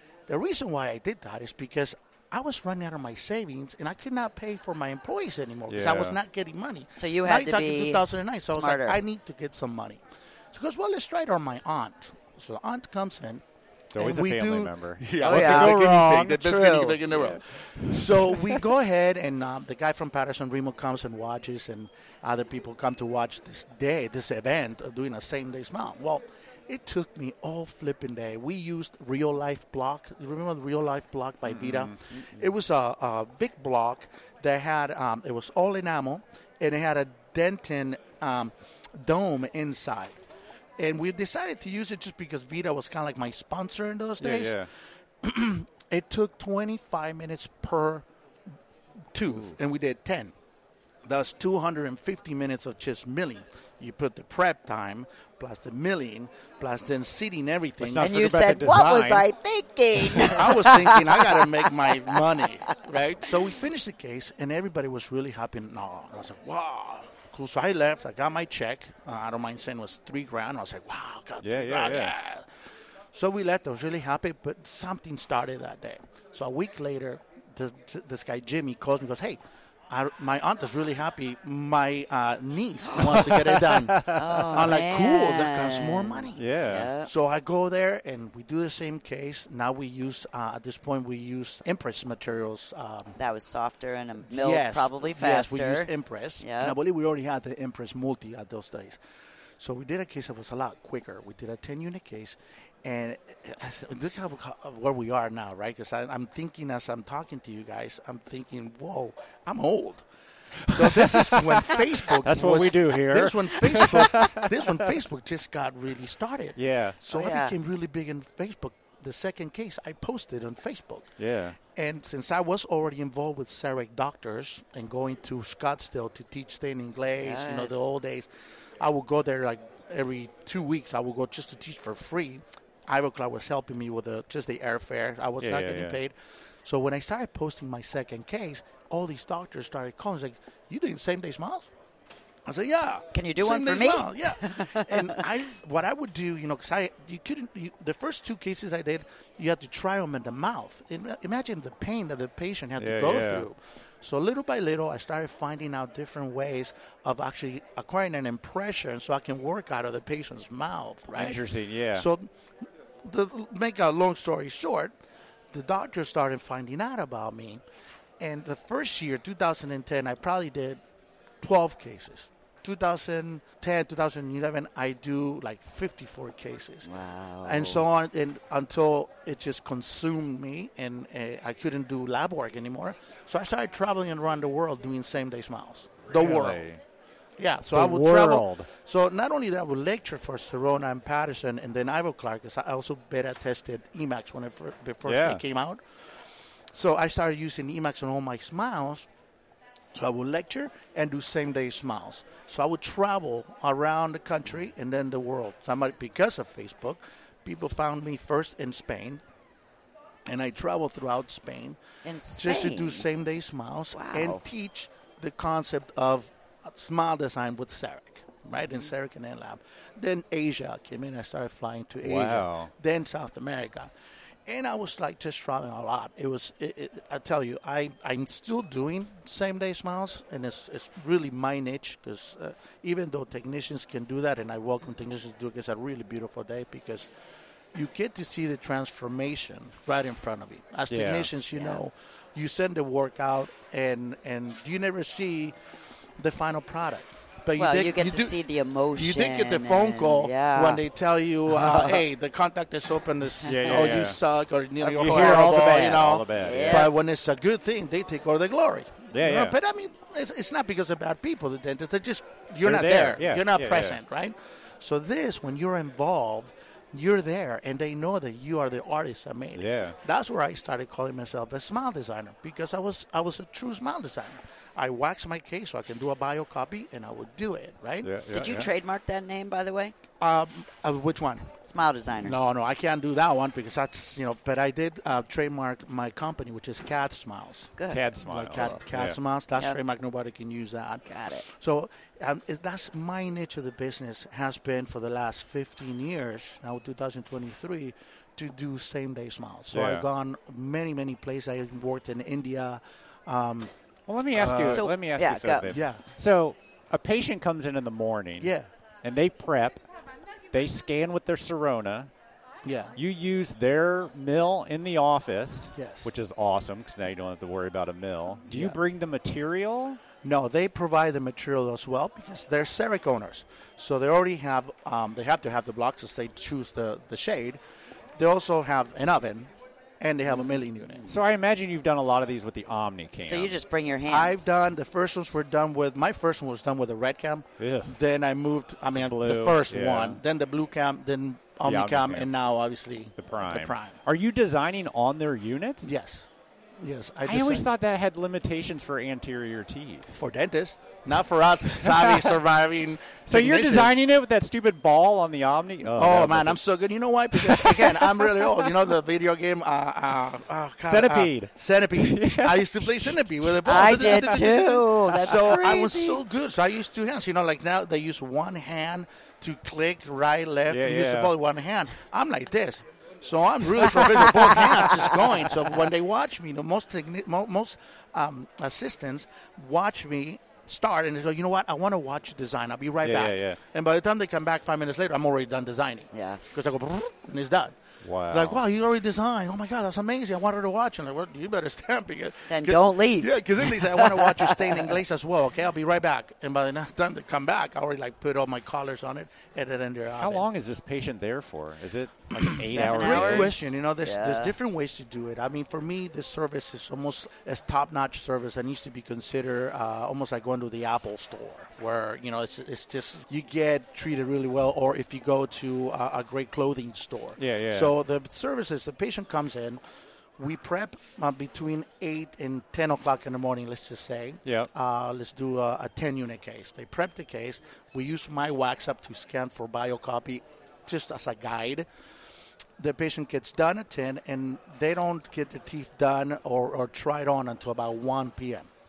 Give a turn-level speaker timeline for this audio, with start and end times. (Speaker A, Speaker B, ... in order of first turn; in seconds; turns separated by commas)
Speaker A: 0.3-10.0, Speaker B: 5.7-6.2, Speaker C: 7.0-9.0, Speaker A: 10.5-13.4, Speaker B: 13.9-16.5, Speaker A: 14.0-40.2, Speaker C: 15.2-17.0, Speaker B: 17.1-18.6, Speaker B: 31.4-32.0, Speaker C: 32.1-32.5, Speaker A: 40.8-44.7, Speaker B: 44.2-44.7, Speaker A: 45.2-48.0, Speaker A: 49.1-50.3, Speaker A: 51.1-58.1, Speaker B: 57.8-59.3, Speaker C: 58.0-62.8, Speaker A: 60.1-72.5, Speaker B: 71.4-72.1, Speaker A: 73.1-93.2, Speaker B: 83.0-84.6, Speaker C: 84.1-87.1, Speaker B: 86.4-86.9, Speaker C: 93.2-96.8, Speaker A: 94.3-99.0, Speaker A: 99.6-110.0, Speaker B: 110.6-114.8, Speaker A: 110.7-121.1, Speaker B: 116.6-117.0, Speaker C: 117.1-117.5, Speaker B: 121.2-121.6, Speaker A: 121.6-128.3, Speaker C: 127.2-127.8, Speaker A: 128.8-141.7, Speaker B: 135.4-136.0, Speaker A: 142.5-162.3, Speaker C: 143.1-145.3, Speaker B: 152.8-153.5, Speaker B: 161.1-162.1, Speaker A: 163.0-164.9, Speaker A: 165.5-167.6, Speaker A: 168.2-170.8, Speaker A: 171.4-176.9, Speaker C: 176.8-177.8, Speaker A: 177.4-186.7, Speaker B: 186.1-186.8, Speaker A: 187.4-195.8, Speaker B: 187.7-188.7, Speaker B: 195.1-195.4, Speaker A: 196.7-199.1, Speaker A: 199.9-209.2, Speaker A: 210.3-211.8, Speaker C: 212.0-213.1, Speaker A: 212.4-223.9, Speaker C: 213.9-214.4, Speaker B: 222.0-222.7, Speaker A: 224.5-237.1, Speaker A: 237.7-245.6, Speaker B: 240.9-241.3, Speaker C: 241.5-241.8, Speaker A: 246.2-248.4, Speaker C: 247.6-250.8, Speaker A: 248.9-278.1, Speaker C: 251.5-252.0, Speaker B: 253.4-254.2, Speaker C: 254.8-256.9, Speaker B: 255.0-256.9, Speaker B: 259.1-259.6, Speaker B: 262.6-264.0, Speaker B: 269.6-270.0, Speaker B: 278.0-278.7, Speaker C: 278.3-279.9, Speaker A: 280.2-281.5, Speaker C: 281.6-282.4, Speaker A: 282.2-303.7, Speaker C: 287.8-288.0, Speaker B: 287.9-289.2, Speaker C: 291.1-291.5, Speaker B: 299.7-300.1, Speaker B: 304.1-308.5, Speaker A: 304.3-304.9, Speaker C: 304.7-305.7, Speaker A: 305.7-306.0, Speaker A: 308.4-308.7, Speaker B: 309.0-309.8, Speaker B: 310.5-312.1, Speaker A: 312.6-313.0, Speaker B: 313.0-320.0, Speaker A: 315.8-316.1, Speaker A: 318.4-318.8, Speaker A: 320.2-327.6, Speaker A: 328.2-331.2, Speaker B: 331.1-333.6, Speaker C: 333.2-334.5, Speaker A: 334.1-344.0, Speaker B: 337.6-337.9, Speaker B: 339.0-340.2, Speaker B: 341.6-342.3, Speaker B: 343.2-345.9, Speaker A: 345.8-346.3, Speaker A: 346.8-347.7, Speaker B: 347.2-350.1, Speaker A: 350.1-354.0, Speaker B: 351.8-352.4, Speaker B: 353.2-356.6, Speaker A: 355.9-400.5, Speaker B: 357.3-358.8, Speaker B: 360.8-365.9, Speaker C: 363.6-366.2, Speaker B: 370.7-371.3, Speaker B: 383.0-383.6, Speaker C: 386.1-386.4, Speaker B: 388.0-388.6, Speaker C: 392.5-394.9, Speaker B: 400.2-403.7, Speaker A: 402.4-419.8, Speaker C: 402.6-404.5, Speaker B: 417.4-417.9, Speaker A: 420.4-431.9, Speaker A: 432.8-438.7